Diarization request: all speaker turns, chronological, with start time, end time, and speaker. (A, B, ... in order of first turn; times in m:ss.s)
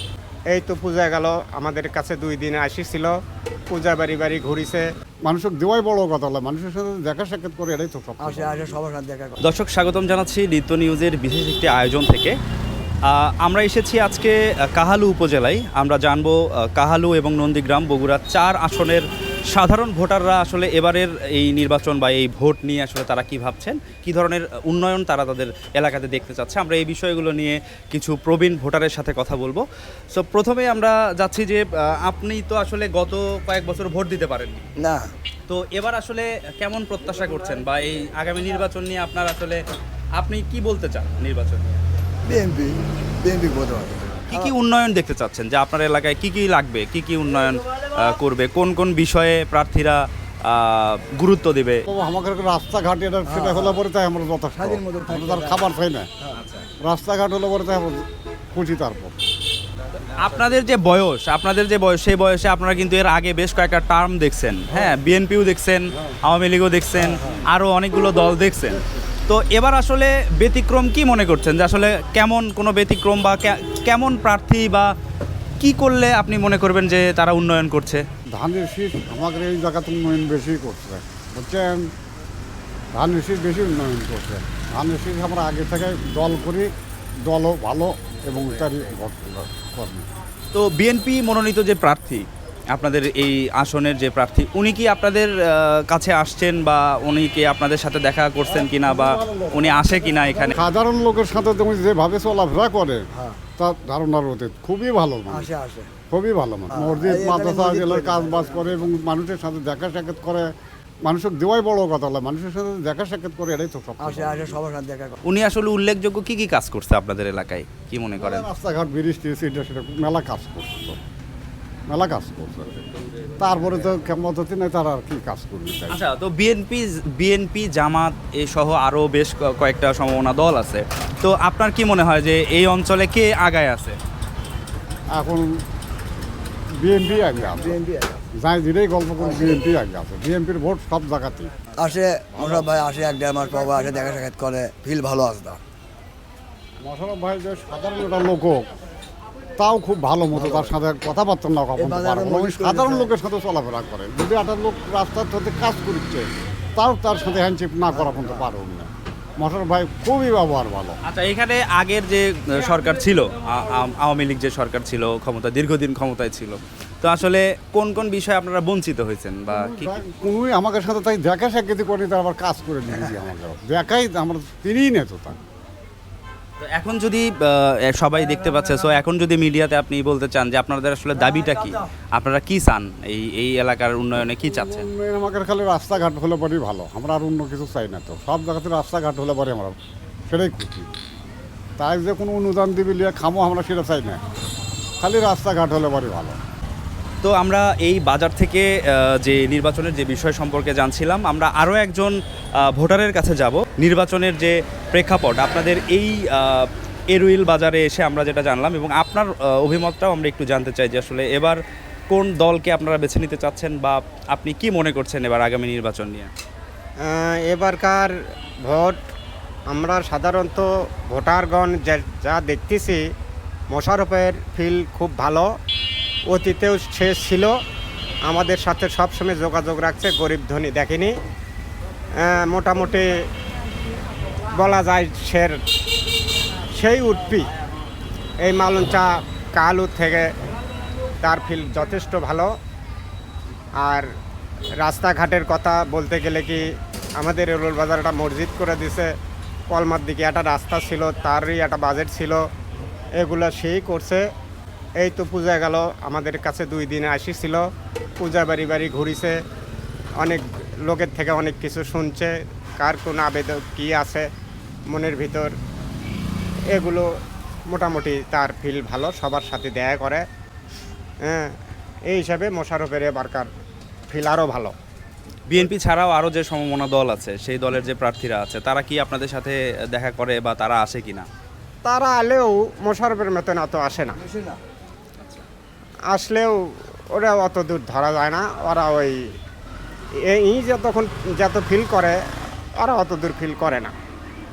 0:00.5-0:03.1 A
0:03.7-0:04.8 A
0:05.2-0:08.8 B
0:08.2-0:09.4 C
0:09.4-0:12.3 D
0:13.1-0:34.7 D
0:34.8-0:35.1 C
0:35.5-0:39.6 D
0:40.2-0:41.8 D
0:42.2-0:44.5 C
0:44.3-0:51.8 D
0:51.9-0:56.1 B
0:53.2-0:53.8 C
0:54.5-0:56.4 C
0:56.4-0:56.7 D
0:56.8-0:59.2 B
1:00.1-1:14.9 D
1:07.0-1:07.4 C
1:15.6-1:18.0 D
1:18.3-1:21.8 B
1:22.9-1:26.7 B
1:27.3-1:30.1 B
1:30.5-1:40.6 D
1:38.5-1:43.0 B
1:43.1-1:43.4 C
1:43.6-1:45.5 B
1:45.3-1:45.9 C
1:46.1-1:50.4 B
1:46.7-1:48.8 C
1:51.0-1:54.6 B
1:54.0-1:55.2 C
1:55.2-1:58.5 D
1:58.2-2:01.0 B
2:01.9-2:02.8 B
2:03.4-2:06.0 B
2:05.9-2:14.0 D
2:15.1-2:15.4 B
2:16.8-2:17.8 B
2:17.4-2:18.2 C
2:18.4-2:21.5 B
2:19.2-2:19.6 C
2:21.8-2:25.6 C
2:22.3-2:22.7 B
2:26.8-2:28.6 B
2:29.6-2:41.0 B
2:30.3-2:30.7 C
2:31.8-2:33.1 C
2:37.9-2:38.5 C
2:41.0-2:50.0 D
2:49.5-2:55.4 B
2:56.6-3:04.9 D
3:04.4-3:09.7 B
3:10.3-3:10.9 B
3:11.8-3:14.2 B
3:15.0-3:16.4 B
3:17.2-3:22.1 D
3:22.7-3:36.3 D
3:37.0-3:38.1 A
3:38.6-3:39.0 A
3:39.7-3:43.0 A
3:43.7-3:45.5 A
3:46.3-3:47.5 A
3:48.2-3:51.1 A
3:52.2-3:53.1 A
3:54.5-3:55.6 A
3:56.8-3:57.5 A
3:58.4-4:00.3 A
4:01.2-4:02.5 A
4:03.8-4:04.0 A
4:04.8-4:06.6 A
4:07.2-4:09.1 A
4:09.7-4:12.4 A
4:13.2-4:14.2 A
4:15.0-4:17.6 A
4:18.2-4:19.4 A
4:20.2-4:24.2 A
4:24.9-4:25.5 A
4:26.7-4:27.1 A
4:27.7-4:30.2 A
4:32.1-4:33.5 A
4:34.1-4:34.7 A
4:35.5-4:41.3 D
4:41.8-4:44.2 A
4:44.2-4:44.5 C
4:46.1-4:46.6 A
4:47.1-4:49.2 A
4:50.3-4:52.2 A
4:52.8-4:53.9 A